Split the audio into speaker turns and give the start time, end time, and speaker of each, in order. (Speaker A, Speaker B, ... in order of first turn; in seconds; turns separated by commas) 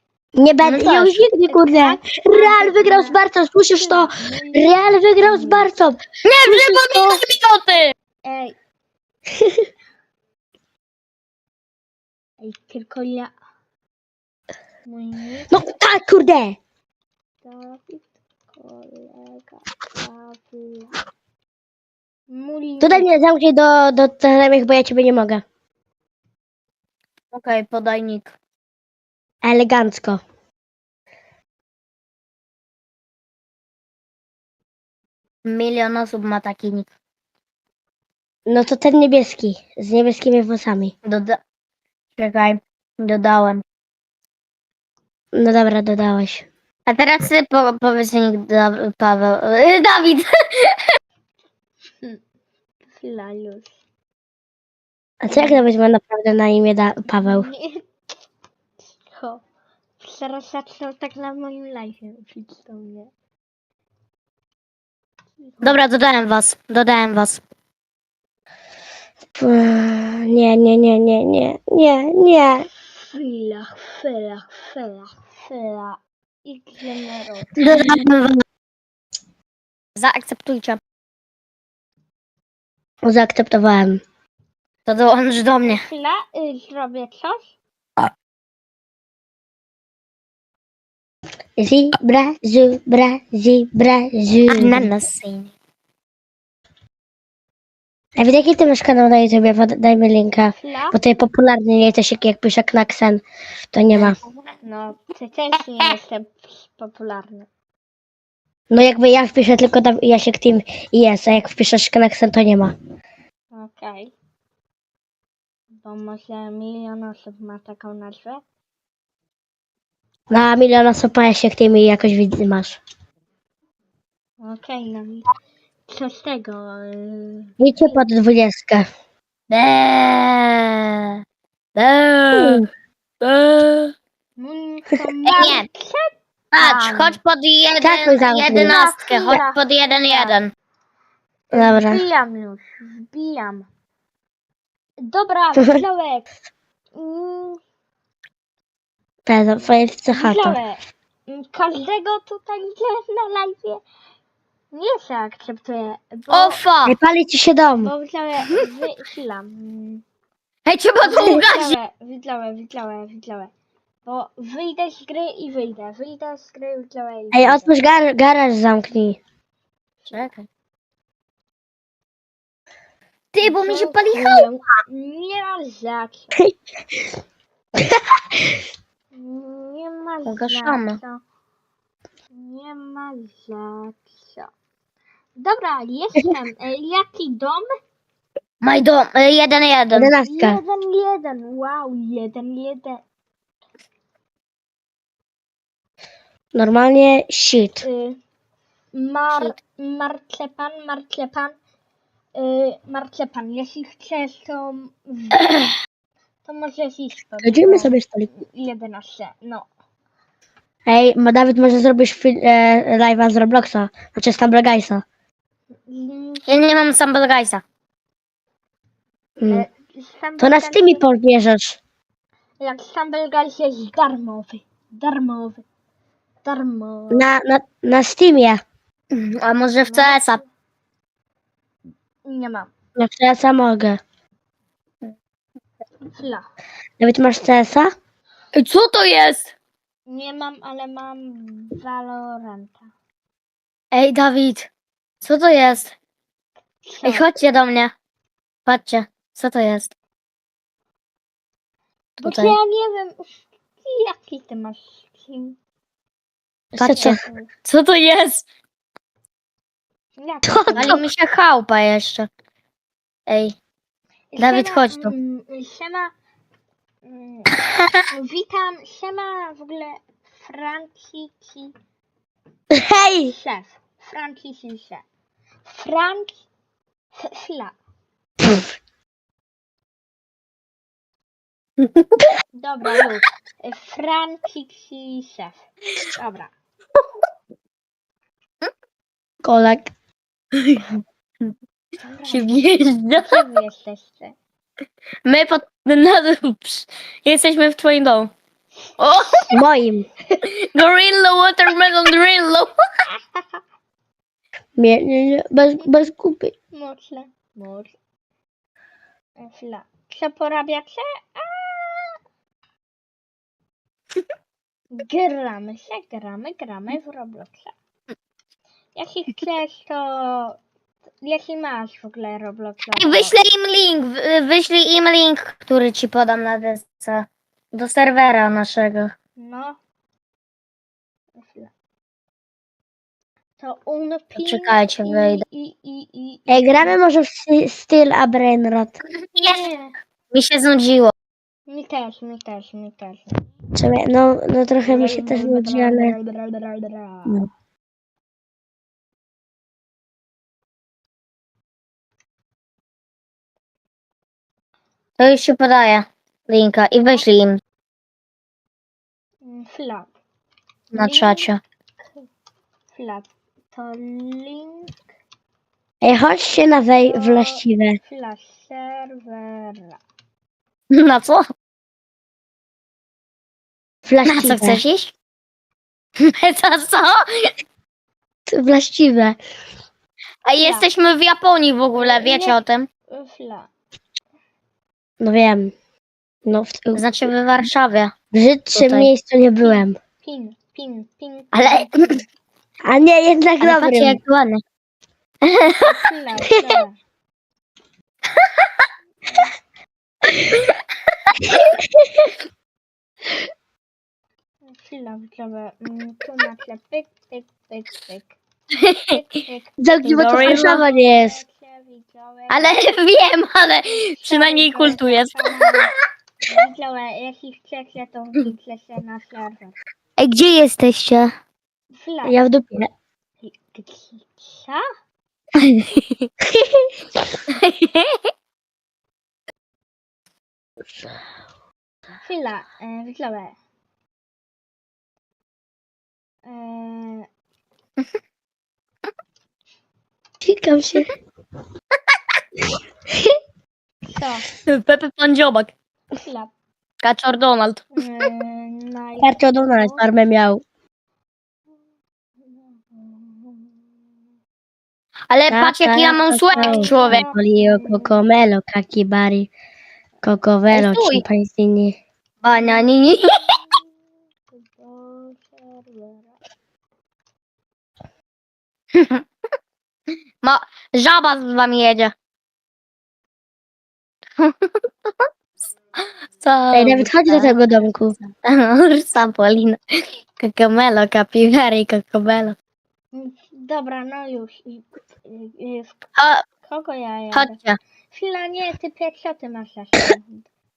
Speaker A: 0.3-7.2, Speaker B: 0.6-1.1, Speaker C: 1.5-3.2, Speaker C: 3.7-5.7, Speaker B: 6.2-7.9, Speaker C: 8.2-8.5, Speaker A: 9.3-9.7, Speaker C: 12.4-13.3, Speaker C: 14.8-15.5, Speaker A: 15.5-16.6, Speaker C: 17.4-20.9, Speaker C: 22.3-23.1, Speaker A: 22.8-25.4, Speaker B: 27.3-28.3, Speaker A: 29.4-30.2, Speaker B: 35.4-36.9, Speaker A: 38.5-40.9, Speaker B: 41.0-41.4, Speaker B: 42.2-43.6, Speaker A: 45.3-46.5, Speaker B: 46.9-50.8, Speaker C: 52.9-53.8, Speaker A: 55.2-57.5, Speaker C: 55.3-55.6, Speaker C: 57.0-57.9, Speaker C: 59.0-59.4, Speaker C: 60.0-63.1, Speaker C: 65.4-65.8, Speaker B: 65.6-67.4, Speaker A: 69.3-72.7, Speaker C: 72.8-77.7, Speaker A: 77.6-78.4, Speaker B: 77.6-78.0, Speaker B: 80.0-80.8, Speaker A: 83.0-84.0, Speaker B: 84.8-85.8, Speaker C: 85.7-87.5, Speaker A: 91.6-94.9, Speaker B: 94.5-95.5, Speaker A: 98.2-104.2, Speaker C: 100.5-101.0, Speaker B: 103.9-104.3, Speaker C: 104.6-107.5, Speaker A: 108.7-112.7, Speaker C: 113.5-114.1, Speaker C: 115.8-118.4, Speaker A: 120.3-122.8, Speaker C: 124.4-125.3, Speaker C: 125.9-128.0, Speaker A: 127.6-128.9, Speaker B: 129.5-131.2, Speaker B: 131.7-132.7, Speaker A: 132.3-132.6, Speaker B: 133.2-133.9, Speaker C: 134.4-137.2, Speaker B: 135.2-135.7, Speaker B: 136.5-140.5, Speaker A: 137.8-138.7, Speaker C: 138.5-140.4, Speaker A: 141.5-142.0, Speaker C: 141.5-143.7, Speaker C: 145.0-146.3, Speaker A: 145.6-145.8, Speaker C: 146.9-147.6, Speaker A: 149.2-150.6, Speaker C: 150.1-153.8, Speaker C: 154.7-156.6, Speaker B: 156.3-156.9, Speaker A: 156.8-157.9, Speaker C: 157.8-160.0, Speaker B: 160.7-161.8, Speaker C: 161.0-163.5, Speaker C: 164.0-167.8, Speaker A: 167.3-169.2, Speaker C: 170.0-170.3, Speaker B: 170.1-170.4, Speaker B: 173.3-174.5, Speaker C: 173.4-176.4, Speaker A: 177.8-178.6, Speaker C: 179.1-181.2, Speaker B: 180.2-181.0, Speaker C: 182.3-184.5, Speaker C: 185.3-187.7, Speaker B: 188.6-190.1, Speaker A: 189.9-190.6, Speaker C: 190.2-193.0, Speaker A: 196.5-197.8, Speaker C: 197.8-198.2, Speaker C: 198.9-201.6, Speaker C: 202.3-205.5, Speaker C: 206.4-209.7, Speaker A: 207.4-208.3, Speaker A: 210.8-215.0, Speaker C: 215.8-216.4, Speaker B: 216.5-217.6, Speaker A: 219.4-219.7, Speaker C: 219.5-221.1, Speaker A: 220.4-221.8, Speaker C: 222.6-225.6, Speaker C: 226.4-227.3, Speaker A: 227.1-228.6, Speaker B: 229.1-230.4, Speaker C: 229.9-230.4, Speaker C: 232.2-232.7, Speaker A: 232.9-234.0, Speaker C: 236.0-236.4, Speaker A: 237.0-237.9, Speaker B: 238.5-239.5, Speaker C: 240.1-242.9, Speaker B: 243.9-244.7, Speaker B: 245.2-245.9, Speaker C: 246.8-247.3, Speaker B: 247.0-247.9, Speaker B: 248.7-249.9, Speaker C: 252.2-255.6, Speaker B: 252.2-252.6, Speaker B: 256.7-258.4, Speaker A: 256.7-257.2, Speaker C: 256.9-257.5, Speaker C: 260.2-261.0, Speaker A: 260.5-261.0, Speaker B: 260.8-262.3, Speaker B: 263.3-263.6, Speaker C: 264.3-266.1, Speaker B: 264.4-265.1, Speaker C: 267.0-267.6, Speaker C: 268.1-271.7, Speaker A: 272.7-273.3, Speaker C: 273.2-275.0, Speaker C: 275.6-276.5, Speaker C: 277.1-277.8, Speaker B: 281.8-282.2, Speaker C: 282.5-286.5, Speaker A: 289.4-289.9, Speaker B: 290.5-290.9, Speaker C: 292.0-294.4, Speaker B: 292.3-293.4, Speaker B: 295.2-298.3, Speaker B: 299.0-299.5, Speaker C: 299.1-299.5, Speaker A: 299.5-300.1, Speaker B: 300.4-302.8, Speaker C: 303.1-303.6, Speaker A: 304.8-306.5, Speaker C: 306.7-307.9, Speaker C: 309.4-312.2, Speaker C: 314.9-317.7, Speaker C: 318.9-320.6, Speaker C: 321.2-323.4, Speaker B: 322.9-329.1, Speaker C: 329.4-329.8, Speaker C: 331.4-331.7, Speaker C: 333.6-337.0, Speaker B: 334.4-335.4, Speaker A: 336.5-339.0, Speaker B: 339.1-339.7, Speaker C: 339.4-339.9, Speaker B: 340.3-341.1, Speaker C: 341.7-343.3, Speaker A: 343.7-346.1, Speaker C: 344.8-347.4, Speaker B: 355.2-357.6, Speaker C: 359.4-360.1, Speaker B: 360.9-361.6, Speaker C: 361.0-361.5, Speaker C: 362.9-364.9, Speaker A: 366.0-368.0, Speaker C: 367.0-370.0, Speaker B: 370.9-371.4, Speaker A: 374.1-374.8, Speaker B: 374.2-375.1, Speaker B: 376.2-377.5, Speaker A: 378.5-379.4, Speaker B: 380.4-382.9, Speaker C: 380.6-380.9, Speaker C: 381.9-383.7, Speaker A: 385.2-385.7, Speaker A: 386.4-387.1, Speaker B: 386.9-388.1, Speaker A: 388.3-389.9, Speaker B: 388.7-389.1, Speaker C: 389.6-392.2, Speaker B: 391.5-392.2, Speaker A: 392.8-394.2, Speaker B: 393.6-394.6, Speaker B: 395.4-396.0, Speaker C: 395.7-396.9, Speaker B: 398.4-398.6, Speaker A: 401.5-402.3, Speaker C: 404.6-408.4, Speaker B: 408.7-409.1, Speaker C: 409.1-412.8, Speaker A: 409.8-411.4, Speaker B: 410.0-410.8, Speaker B: 412.5-415.7, Speaker C: 414.1-415.9, Speaker C: 416.4-419.8, Speaker B: 420.2-421.3, Speaker C: 421.9-422.4, Speaker A: 422.2-422.9, Speaker C: 423.4-424.8, Speaker B: 425.6-426.2, Speaker A: 426.5-426.9, Speaker B: 427.5-428.3, Speaker C: 432.2-433.6, Speaker C: 436.4-437.3, Speaker A: 440.4-441.1, Speaker A: 443.1-443.3, Speaker C: 444.1-444.5, Speaker B: 444.6-445.7, Speaker C: 446.2-446.5, Speaker B: 447.0-447.9, Speaker C: 447.9-450.1, Speaker A: 449.2-450.6, Speaker C: 452.5-453.8, Speaker B: 455.3-457.2, Speaker A: 455.5-459.5, Speaker C: 456.5-458.2, Speaker A: 460.2-462.0, Speaker B: 460.7-461.2, Speaker B: 462.4-463.5, Speaker C: 462.6-462.9, Speaker C: 464.5-466.4, Speaker B: 468.9-469.2, Speaker B: 470.4-472.1, Speaker B: 474.4-475.1, Speaker B: 476.4-477.6, Speaker A: 476.7-478.2, Speaker B: 478.2-482.6, Speaker C: 483.1-486.0, Speaker B: 486.2-486.4, Speaker C: 486.6-487.6, Speaker B: 487.3-487.8, Speaker C: 488.1-490.5